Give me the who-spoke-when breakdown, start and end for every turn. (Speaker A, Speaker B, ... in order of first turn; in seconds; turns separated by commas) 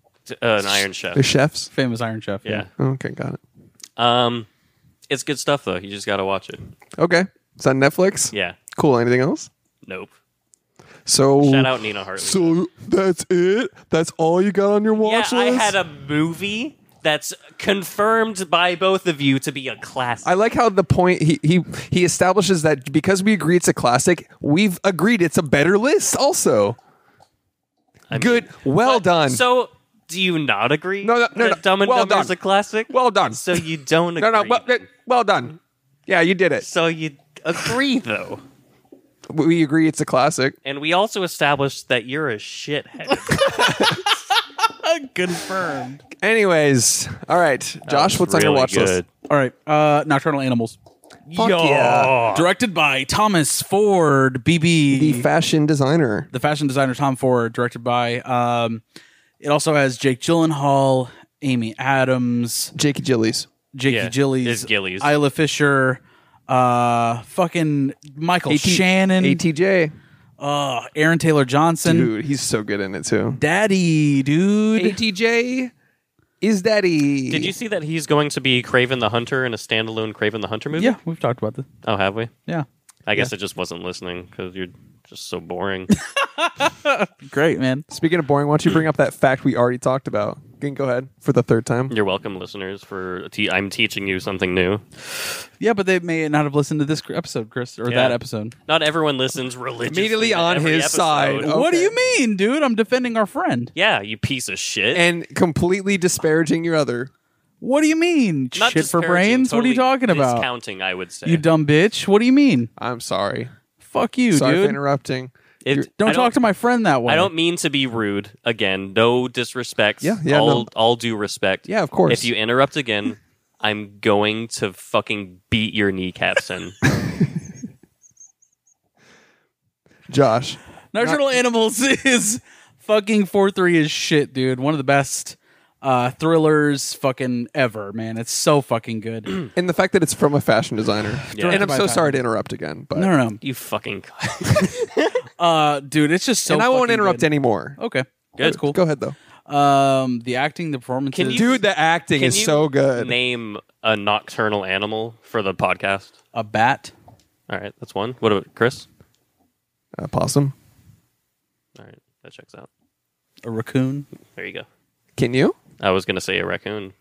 Speaker A: 0.3-1.2, Speaker B: 0.7-1.7, Speaker C: 1.7-2.6, Speaker A: 2.5-2.7, Speaker B: 2.7-3.4, Speaker A: 4.0-4.5, Speaker A: 5.1-6.6, Speaker B: 7.0-9.5, Speaker A: 8.3-8.6, Speaker A: 9.9-10.1, Speaker B: 11.1-15.8, Speaker A: 11.4-12.6, Speaker A: 15.0-20.4, Speaker B: 20.2-26.8, Speaker A: 28.1-34.9, Speaker B: 28.1-29.4, Speaker B: 31.0-32.3, Speaker B: 32.9-33.6, Speaker B: 34.2-36.7, Speaker A: 36.6-38.4, Speaker B: 39.3-40.6, Speaker A: 40.6-43.4, Speaker C: 43.1-46.0, Speaker B: 43.4-44.0, Speaker B: 46.2-49.0, Speaker A: 47.9-49.1, Speaker C: 49.3-50.8, Speaker B: 51.4-52.2, Speaker A: 51.4-52.5, Speaker C: 52.2-55.3, Speaker B: 54.9-56.3, Speaker C: 56.3-58.8, Speaker C: 59.4-62.7, Speaker B: 62.7-63.5, Speaker C: 63.7-69.4, Speaker A: 63.9-65.1, Speaker B: 68.5-69.9, Speaker C: 70.4-72.1, Speaker B: 71.8-73.4, Speaker C: 73.4-75.0, Speaker B: 74.8-75.7, Speaker B: 76.4-77.5, Speaker A: 77.3-81.0, Speaker C: 80.8-81.7, Speaker A: 81.8-82.3, Speaker A: 83.1-85.9, Speaker C: 86.2-87.9, Speaker B: 87.9-92.0, Speaker A: 91.9-94.8, Speaker C: 95.6-98.5, Speaker A: 97.9-101.5, Speaker B: 99.9-102.0, Speaker C: 101.4-103.7, Speaker A: 103.8-105.0, Speaker B: 104.9-107.1, Speaker C: 107.6-110.5, Speaker A: 108.6-111.4, Speaker C: 111.3-112.7, Speaker B: 112.8-113.5, Speaker C: 113.8-114.8, Speaker B: 114.3-115.9, Speaker A: 115.6-116.4, Speaker C: 116.0-117.3, Speaker A: 117.1-126.8, Speaker B: 120.0-120.7, Speaker B: 121.7-122.3, Speaker B: 130.1-131.2, Speaker C: 130.9-139.3, Speaker B: 139.6-143.1, Speaker A: 141.3-141.7, Speaker C: 141.3-142.2, Speaker C: 142.9-143.4, Speaker A: 143.4-145.2, Speaker C: 145.4-148.8, Speaker B: 146.5-147.8, Speaker A: 148.4-148.6, Speaker B: 148.4-149.2, Speaker C: 149.5-151.5, Speaker A: 151.1-151.6, Speaker B: 151.3-153.2, Speaker A: 152.2-156.1, Speaker C: 156.3-156.9, Speaker A: 157.5-158.9, Speaker B: 160.0-160.6, Speaker A: 161.8-162.7, Speaker C: 163.4-164.1, Speaker A: 164.4-164.7, Speaker B: 165.2-165.6, Speaker A: 165.8-166.9